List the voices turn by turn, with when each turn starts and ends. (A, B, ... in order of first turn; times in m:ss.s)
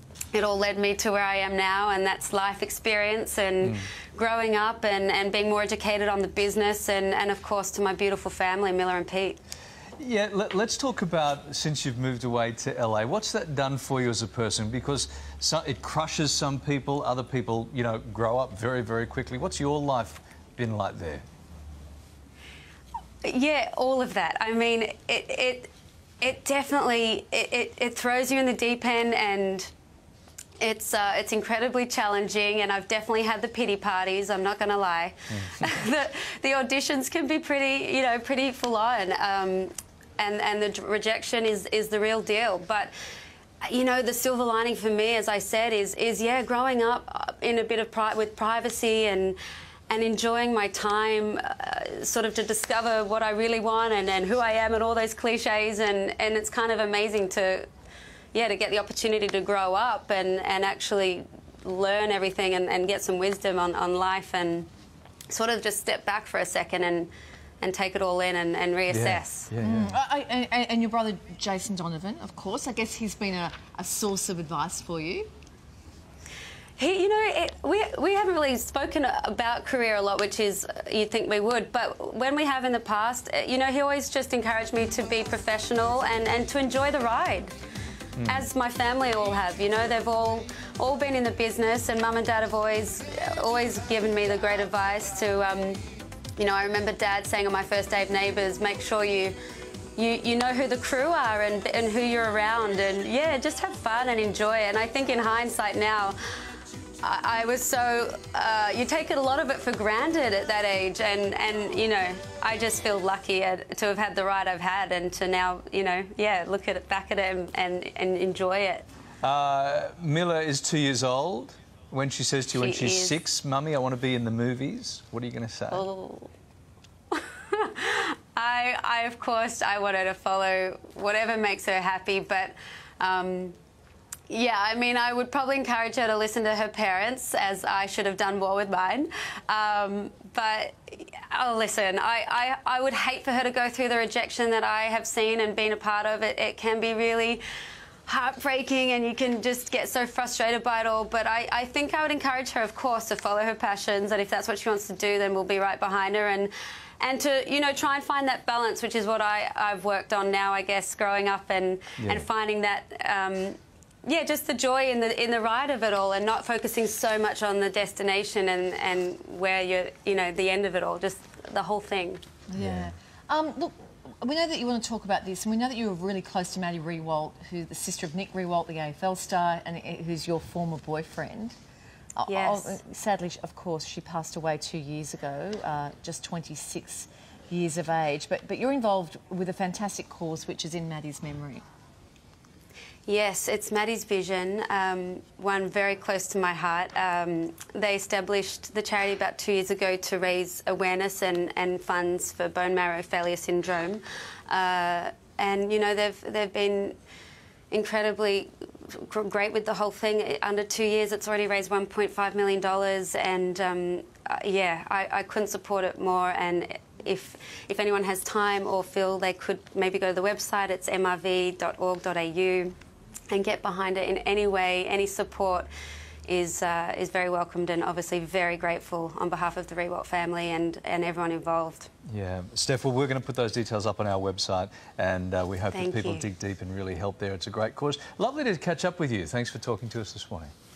0:00.3-0:09.4 A
0:03.6-0:03.9 B
0:10.0-0:21.2 B
0:23.2-0:29.7 A
0:30.6-0:42.9 A
0:43.6-0:49.4 A
0:49.9-0:57.7 A
0:58.3-1:04.7 A
1:05.3-1:09.5 A
1:08.9-1:09.9 B
1:09.6-1:15.3 C
1:16.8-1:27.5 A
1:28.2-1:28.4 B
1:28.2-1:35.8 A
1:36.4-1:39.4 A
1:40.0-1:46.2 A
1:47.0-1:58.8 A
1:59.2-2:05.8 B
2:02.5-2:03.2 A
2:05.7-2:06.3 A
2:07.1-2:13.5 A
2:14.3-2:27.4 A
2:28.1-2:52.2 A
2:42.0-2:42.2 B
2:52.5-3:01.6 C
2:52.6-2:52.9 B
3:02.2-3:11.6 C
3:02.3-3:02.8 A
3:13.1-3:27.0 A
3:27.7-3:42.7 A
3:43.3-3:45.7 A
3:46.3-3:51.9 A
3:52.0-4:00.5 B
3:55.7-3:56.2 A